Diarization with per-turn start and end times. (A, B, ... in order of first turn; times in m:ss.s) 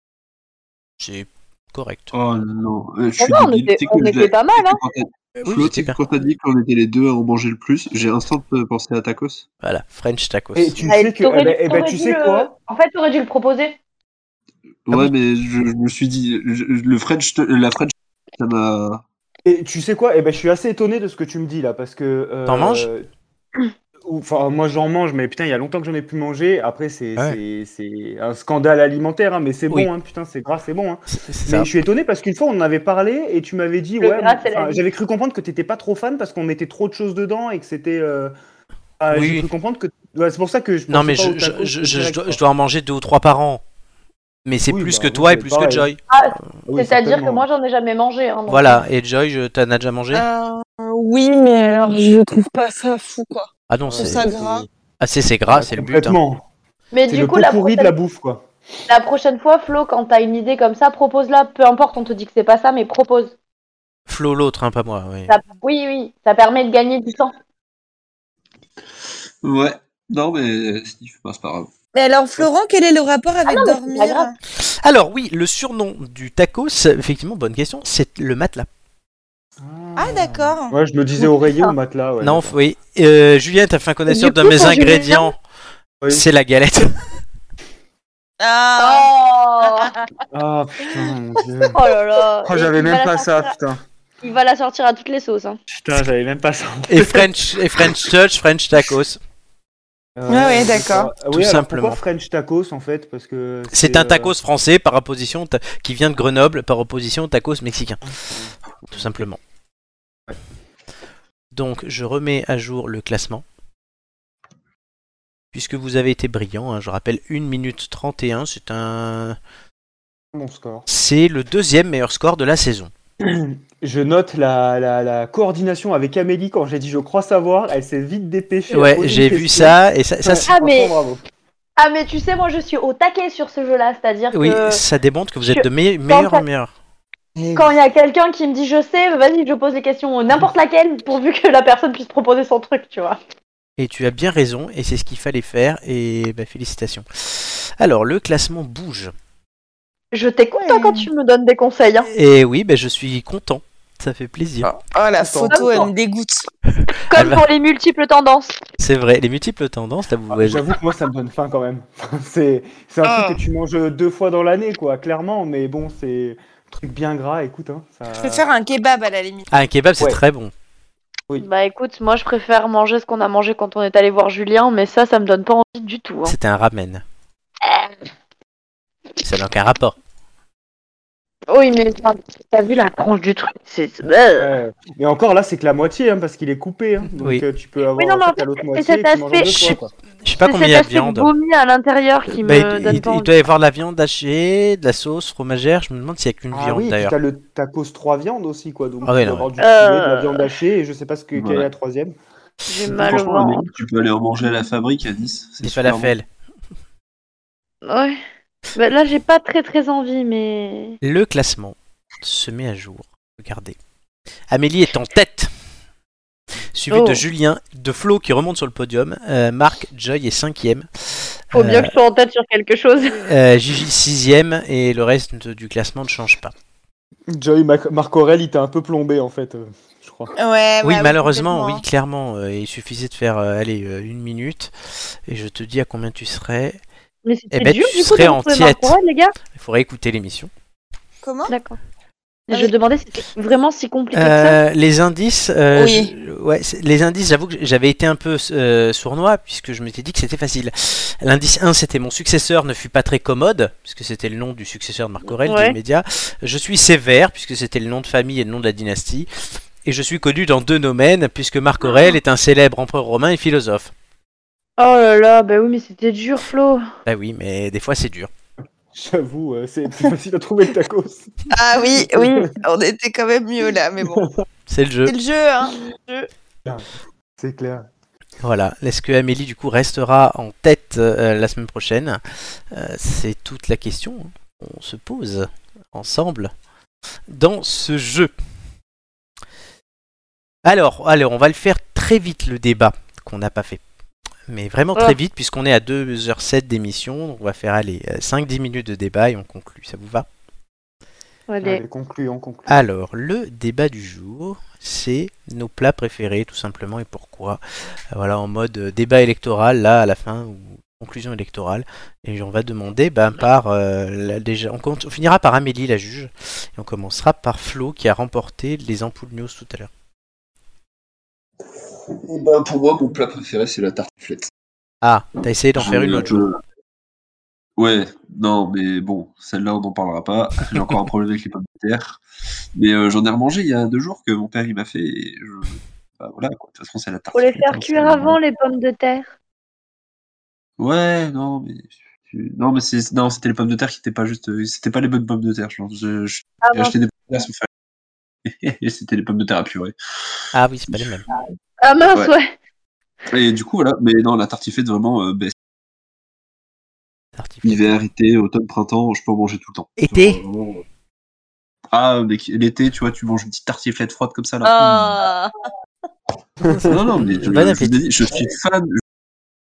0:01.0-0:02.1 A
0:02.1-0:09.4 B
0:03.2-0:04.8 C
0:05.4-0:06.0 A
0:09.6-0:10.8 A
0:10.6-0:12.5 D
0:10.9-0:13.8 C
0:14.8-0:19.0 B
0:19.4-0:23.0 D
0:22.5-0:22.9 A
0:24.0-0:38.3 D
0:31.1-0:31.7 A
0:34.0-0:34.8 C
0:39.0-0:42.4 D
0:39.1-0:39.5 A
0:40.9-0:43.6 A
0:44.4-0:46.0 A
0:44.7-0:45.9 D
0:46.1-0:48.8 C
0:46.7-0:47.4 D
0:48.5-0:50.2 A
0:50.1-0:54.7 E
0:53.7-0:54.4 A
0:53.9-0:54.6 D
0:55.0-0:56.2 A
0:55.5-0:56.4 D
0:56.9-0:57.9 C
0:57.1-0:58.4 D
0:58.9-1:03.3 C
1:04.1-1:05.3 A
1:05.3-1:07.3 C
1:09.4-1:11.7 B
1:11.9-1:14.3 E
1:13.4-1:14.3 C
1:14.5-1:18.7 A
1:19.6-1:22.5 D
1:20.0-1:20.7 E
1:22.2-1:25.4 A
1:24.1-1:25.3 C
1:26.1-1:26.9 A
1:28.4-1:29.1 E
1:28.8-1:30.0 C
1:30.3-1:31.8 D
1:31.7-1:33.5 C
1:32.4-1:33.8 D
1:34.2-1:35.6 C
1:35.7-1:38.0 D
1:36.9-1:39.2 A
1:40.2-1:44.3 D
1:40.3-1:41.1 E
1:41.3-1:42.0 A
1:43.7-1:48.0 A
1:48.2-1:49.0 D
1:48.9-1:49.4 A
1:51.5-1:53.4 A
1:55.5-1:59.4 A
2:00.3-2:00.9 D
2:00.9-2:02.9 A
2:03.2-2:11.2 D
2:08.7-2:10.5 A
2:10.5-2:10.9 C
2:11.8-2:14.8 C
2:14.3-2:16.7 A
2:15.4-2:16.4 C
2:17.4-2:17.7 D
2:17.5-2:23.2 C
2:23.8-2:29.1 A
2:30.1-2:32.1 C
2:30.6-2:31.1 E
2:32.1-2:34.7 A
2:34.6-2:36.5 E
2:35.2-2:35.8 D
2:35.5-2:35.9 C
2:37.1-2:38.6 C
2:37.1-2:37.4 A
2:38.8-2:40.7 A
2:40.3-2:48.4 D
2:43.0-2:43.4 E
2:48.2-2:49.5 E
2:49.5-2:50.5 A
2:51.4-2:56.4 C
2:56.2-2:57.0 A
2:57.6-2:57.9 C
2:59.2-3:00.0 A
3:01.5-3:04.5 C
3:04.4-3:09.9 D
3:08.0-3:09.8 C
3:10.2-3:11.3 A
3:10.4-3:13.3 C
3:12.4-3:17.2 A
3:16.5-3:22.1 D
3:19.0-3:19.5 A
3:19.6-3:20.5 C
3:21.3-3:21.7 B
3:22.7-3:23.7 C
3:22.8-3:26.1 B
3:25.6-3:26.2 A
3:27.8-3:28.2 C
3:28.7-3:31.0 C
3:31.0-3:33.8 A
3:34.5-3:35.5 A
3:36.7-3:40.9 A
3:36.9-3:37.2 C
3:41.5-3:41.9 A
3:41.5-3:43.2 C
3:43.2-3:46.5 A
3:47.3-3:50.3 D
3:50.4-3:51.8 E
3:50.8-3:54.7 A
3:55.3-3:56.8 A
3:57.2-3:59.3 C
3:57.5-3:59.0 A
3:59.5-4:00.5 A
4:01.2-4:01.5 E
4:01.5-4:01.8 C
4:02.5-4:04.6 C
4:04.1-4:19.3 A
4:05.7-4:06.1 E
4:15.4-4:15.8 C
4:19.8-4:23.9 A
4:24.8-4:26.8 C
4:27.0-4:28.3 A
4:28.9-4:31.3 D
4:31.5-4:34.2 E
4:32.0-4:32.3 D
4:34.7-4:35.1 A
4:35.1-4:36.3 E
4:37.4-4:37.9 D
4:38.4-4:42.2 A
4:42.7-4:46.5 A
4:47.3-4:48.3 A
4:50.6-4:53.8 A
4:54.5-5:00.2 A
5:01.5-5:01.8 C
5:01.6-5:02.8 D
5:02.7-5:07.6 A
5:08.1-5:19.9 A
5:22.1-5:24.5 B
5:25.0-5:26.5 A
5:25.8-5:26.6 B
5:27.8-5:32.2 B
5:32.7-5:38.4 B
5:37.3-5:39.3 C
5:40.8-5:47.7 B
5:46.6-5:47.0 C
5:48.4-5:50.4 B
5:50.5-5:51.2 A
5:50.9-5:51.2 B
5:51.8-5:52.5 C
5:53.3-5:55.5 B
5:57.4-5:57.9 A
5:57.6-6:00.8 B
6:00.0-6:00.4 A
6:01.9-6:05.2 B
6:04.6-6:05.5 E
6:06.6-6:07.0 D
6:06.8-6:09.0 B
6:06.9-6:08.0 A